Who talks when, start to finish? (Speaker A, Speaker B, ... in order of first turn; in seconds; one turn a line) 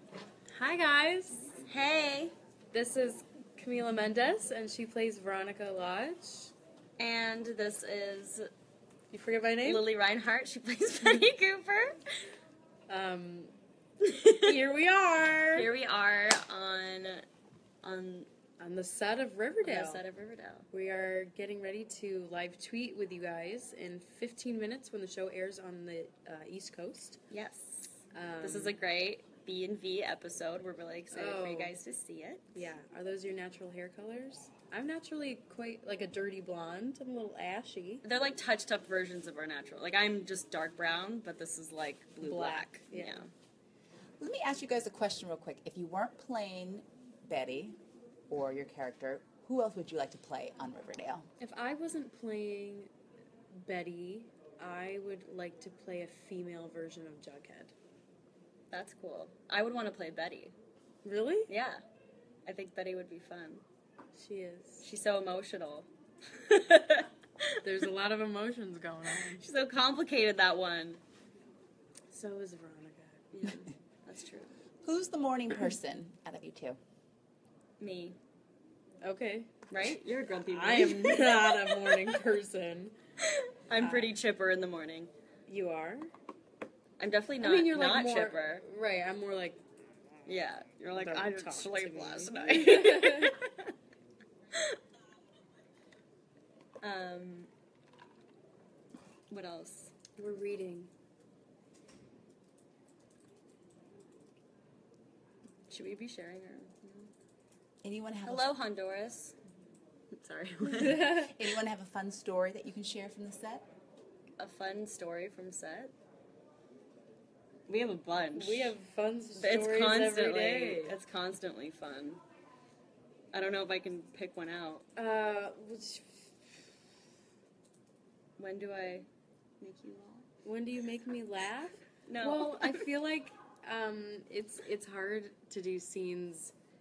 Speaker A: 0.5-1.6
Speaker B: 1.6-2.3
Speaker A: 2.7-6.5
Speaker B: 7.0-8.5
Speaker A: 9.1-9.8
Speaker B: 9.6-12.0
Speaker A: 12.9-13.5
Speaker B: 14.0-14.5
Speaker A: 14.2-15.7
Speaker B: 15.5-17.2
Speaker B: 17.8-18.3
Speaker A: 18.6-20.0
Speaker B: 19.6-20.7
Speaker A: 20.7-27.2
Speaker B: 27.3-32.6
Speaker A: 28.1-28.8
Speaker A: 31.1-31.8
Speaker A: 32.5-38.0
Speaker B: 38.0-43.3
Speaker A: 42.2-43.3
Speaker C: 44.2-47.8
Speaker C: 48.3-51.3
Speaker A: 51.4-52.9
Speaker A: 53.5-57.7
Speaker B: 58.7-60.5
Speaker A: 61.0-61.5
Speaker B: 61.5-61.8
Speaker B: 62.4-63.6
Speaker A: 64.1-64.9
Speaker B: 64.8-67.7
Speaker A: 67.6-69.4
Speaker B: 69.1-71.0
Speaker A: 72.1-73.7
Speaker B: 73.3-74.6
Speaker C: 74.8-76.8
Speaker B: 77.8-78.2
Speaker A: 79.0-79.6
Speaker B: 79.7-82.2
Speaker A: 80.5-82.9
Speaker B: 83.2-85.1
Speaker A: 83.8-84.1
Speaker A: 85.5-86.1
Speaker B: 87.0-88.6
Speaker A: 87.4-89.6
Speaker B: 90.2-93.7
Speaker A: 90.9-93.3
Speaker B: 96.8-97.5
Speaker B: 99.3-99.9
Speaker A: 100.2-100.9
Speaker B: 105.7-107.1
Speaker C: 107.8-108.5
Speaker B: 108.2-109.4
Speaker B: 110.1-111.1
Speaker A: 110.7-111.4
Speaker C: 110.8-113.7
Speaker B: 114.4-115.9
Speaker B: 117.7-118.8
Speaker A: 118.3-121.0
Speaker B: 119.3-122.2
Speaker B: 123.3-124.8
Speaker A: 125.0-126.6
Speaker B: 128.4-129.1
Speaker B: 129.6-130.2
Speaker A: 130.4-136.5
Speaker B: 132.0-132.9